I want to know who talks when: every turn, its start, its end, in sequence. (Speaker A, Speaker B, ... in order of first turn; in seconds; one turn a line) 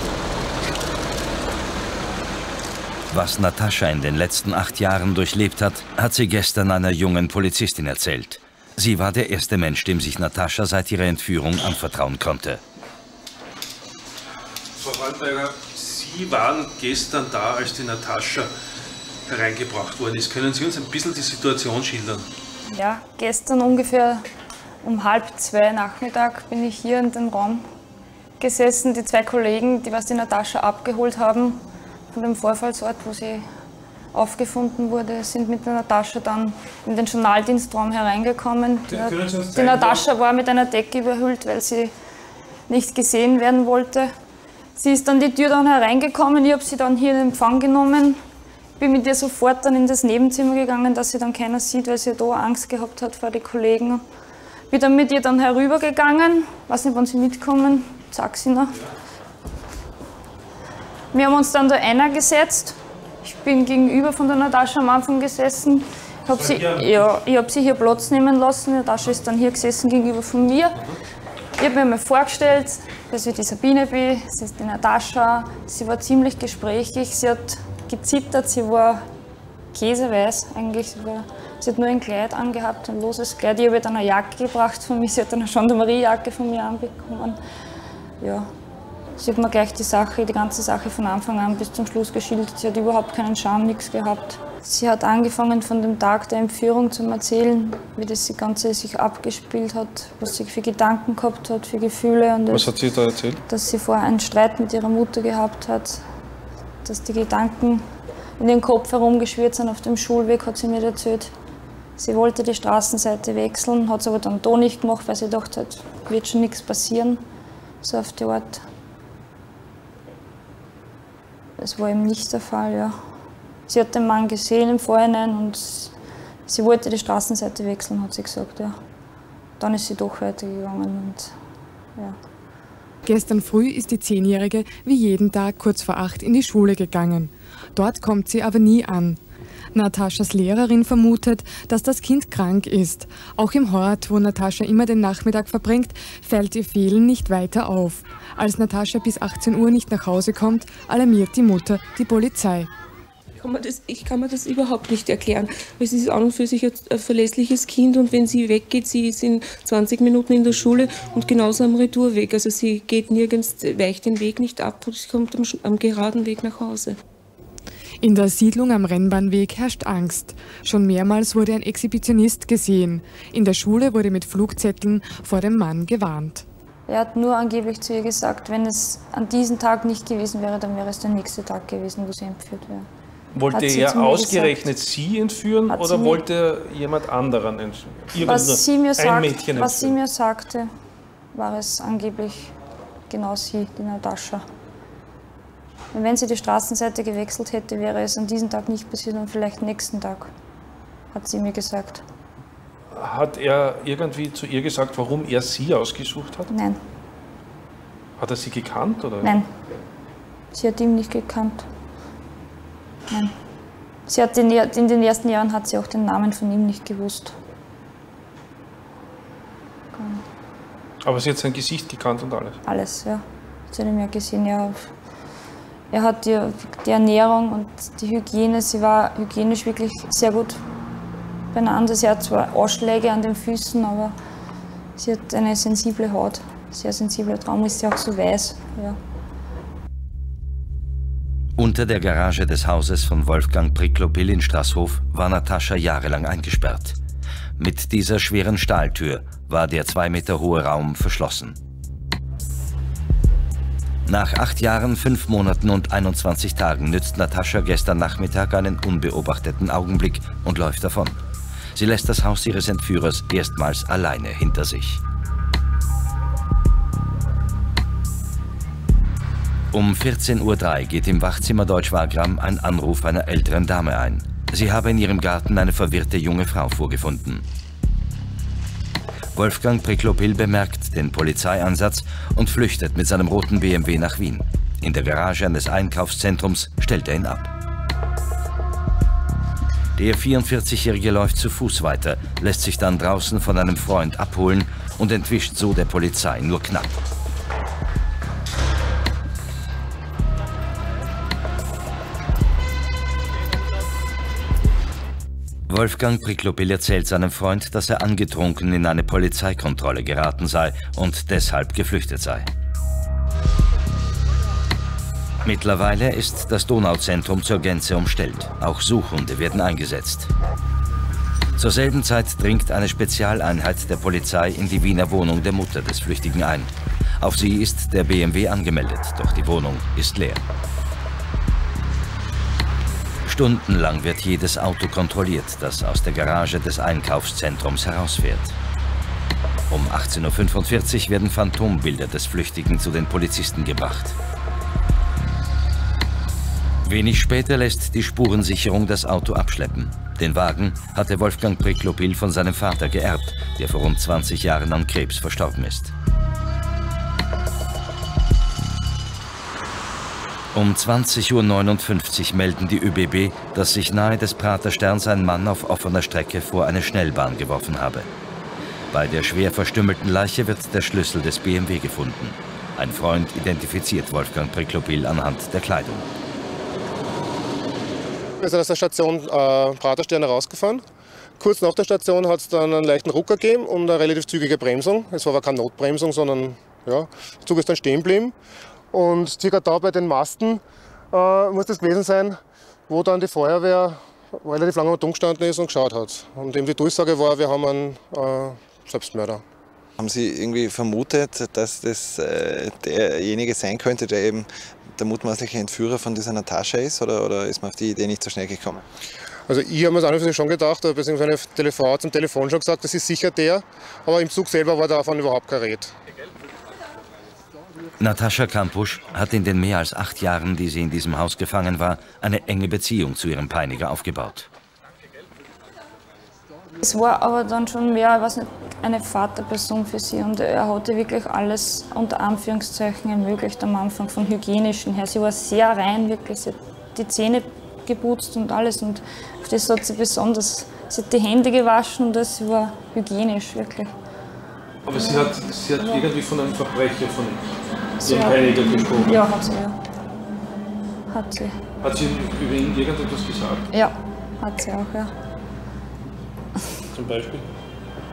Speaker A: 3.1-12.6
Speaker B: 14.8-18.5
Speaker B: 19.3-22.3
Speaker C: 22.7-24.2
Speaker C: 24.8-27.6
Speaker C: 28.4-31.6
Speaker C: 32.1-33.4
Speaker C: 34.1-41.9
Speaker B: 38.9-40.1
Speaker C: 42.7-44.1
Speaker C: 44.8-48.2
Speaker C: 48.8-54.0
Speaker C: 54.7-58.7
Speaker C: 61.1-70.8
Speaker B: 66.3-67.1
Speaker C: 71.6-79.0
Speaker C: 79.7-87.4
Speaker C: 88.2-88.5
Speaker C: 89.2-102.7
Speaker B: 102.5-103.4
Speaker C: 103.5-106.0
Speaker C: 106.8-107.8
Speaker C: 108.4-111.3
Speaker C: 112.0-117.2
Speaker C: 117.8-118.6
Speaker C: 121.6-123.0
Speaker C: 123.7-125.9
Speaker C: 126.5-128.8
Speaker C: 129.6-131.3
Speaker D: 133.1-139.2
Speaker D: 139.7-152.7
Speaker E: 153.4-167.0
Speaker D: 168.0-176.4
Speaker C: 176.9-182.9
Speaker B: 183.3-190.0
Speaker C: 183.5-184.6
Speaker C: 185.7-186.2
Speaker C: 188.2-190.7
Speaker C: 191.3-192.5
Speaker C: 193.1-194.4
Speaker C: 195.9-200.3
Speaker C: 201.1-202.0
Speaker B: 202.9-206.5
Speaker C: 206.5-206.8
Speaker B: 208.2-209.3
Speaker C: 209.2-209.5
Speaker C: 210.5-211.7
Speaker C: 214.1-217.4
Speaker C: 219.9-220.2
Speaker B: 221.0-222.6
Speaker C: 222.7-224.8
Speaker C: 225.9-230.6
Speaker C: 231.5-234.1
Speaker C: 234.9-239.0
Speaker A: 241.6-247.0
Speaker A: 247.6-251.6
Speaker A: 254.1-261.2
Speaker A: 261.7-265.0
Speaker A: 269.7-277.4
Speaker A: 279.3-287.5
Speaker A: 290.0-296.9
Speaker A: 305.7-312.5
Speaker A: 315.4-320.3
Speaker A: 321.6-330.4
Speaker A: 333.2-338.5
Speaker A: 339.7-344.1
Speaker A: 346.8-355.9
Speaker A: 360.5-368.1
Speaker A: 368.9-376.0
Speaker F: 378.4-380.8
Speaker F: 381.4-388.3
Speaker F: 388.9-390.6
Speaker F: 391.1-392.4
Speaker F: 392.9-399.4
Speaker G: 400.0-408.8
Speaker F: 409.5-415.9
Speaker A: 418.0-424.5
Speaker C: 426.8-443.9
Speaker B: 444.8-449.2
Speaker C: 444.9-446.1
Speaker C: 448.0-449.8
Speaker C: 451.1-451.6
Speaker B: 451.8-453.7
Speaker C: 453.7-455.1
Speaker B: 456.9-457.5